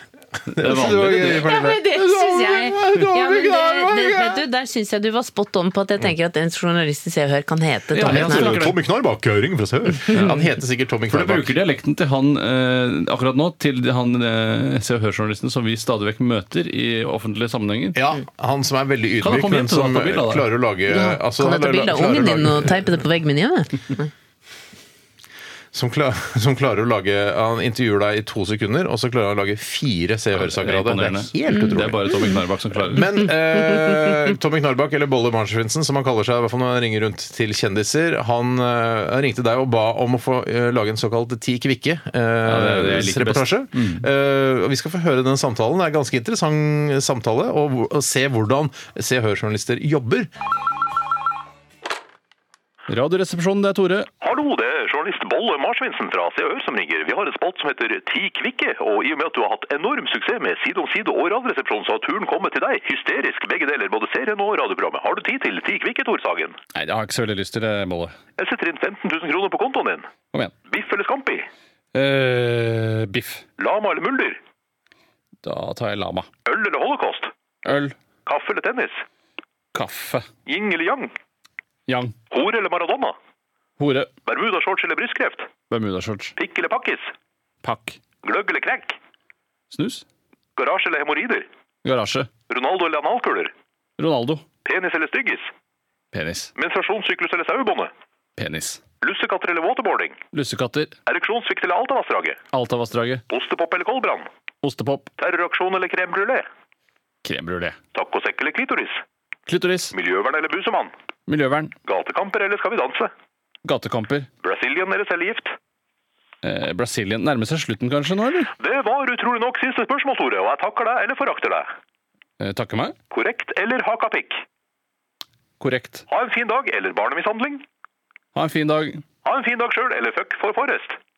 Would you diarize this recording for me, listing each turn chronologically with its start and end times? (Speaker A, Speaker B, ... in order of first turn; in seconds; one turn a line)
Speaker A: 0.4-4.4
Speaker B: 0.5-1.5
Speaker C: 1.4-8.7
Speaker B: 7.9-8.7
Speaker A: 8.0-11.5
Speaker B: 11.1-18.0
Speaker A: 17.9-23.0
Speaker B: 19.2-20.5
Speaker C: 20.9-24.1
Speaker A: 25.7-32.1
Speaker B: 30.3-33.2
Speaker A: 32.9-50.3
Speaker B: 42.4-44.0
Speaker B: 52.9-54.1
Speaker D: 54.2-66.6
Speaker B: 66.7-68.1
Speaker D: 68.4-70.1
Speaker D: 70.7-71.5
Speaker B: 71.9-73.4
Speaker D: 73.6-74.4
Speaker B: 75.4-76.3
Speaker D: 76.5-77.3
Speaker B: 77.6-78.0
Speaker D: 78.2-79.0
Speaker B: 79.7-80.3
Speaker D: 80.5-81.1
Speaker B: 81.9-82.1
Speaker D: 82.3-83.2
Speaker B: 83.8-84.1
Speaker D: 84.2-85.5
Speaker B: 85.7-86.3
Speaker D: 86.4-87.1
Speaker B: 87.6-88.0
Speaker D: 88.2-89.0
Speaker B: 89.7-90.0
Speaker D: 90.6-91.5
Speaker B: 91.8-92.3
Speaker D: 92.5-93.5
Speaker B: 94.0-94.4
Speaker D: 94.6-95.5
Speaker B: 96.1-96.5
Speaker D: 96.5-97.9
Speaker B: 98.4-98.8
Speaker D: 99.0-100.2
Speaker B: 100.3-100.9
Speaker D: 101.1-102.4
Speaker B: 102.5-103.2
Speaker D: 103.3-104.3
Speaker B: 104.6-105.1
Speaker D: 105.2-106.5
Speaker B: 107.2-107.8
Speaker D: 107.9-109.0
Speaker B: 109.5-109.9
Speaker D: 109.9-110.9
Speaker B: 111.3-111.7
Speaker D: 111.8-113.1
Speaker B: 113.6-114.3
Speaker D: 114.4-115.5
Speaker B: 116.4-118.5
Speaker D: 118.6-121.7
Speaker B: 122.4-122.9
Speaker D: 123.1-124.4
Speaker B: 125.6-126.0
Speaker D: 126.1-127.6
Speaker B: 128.3-129.0
Speaker D: 129.2-131.0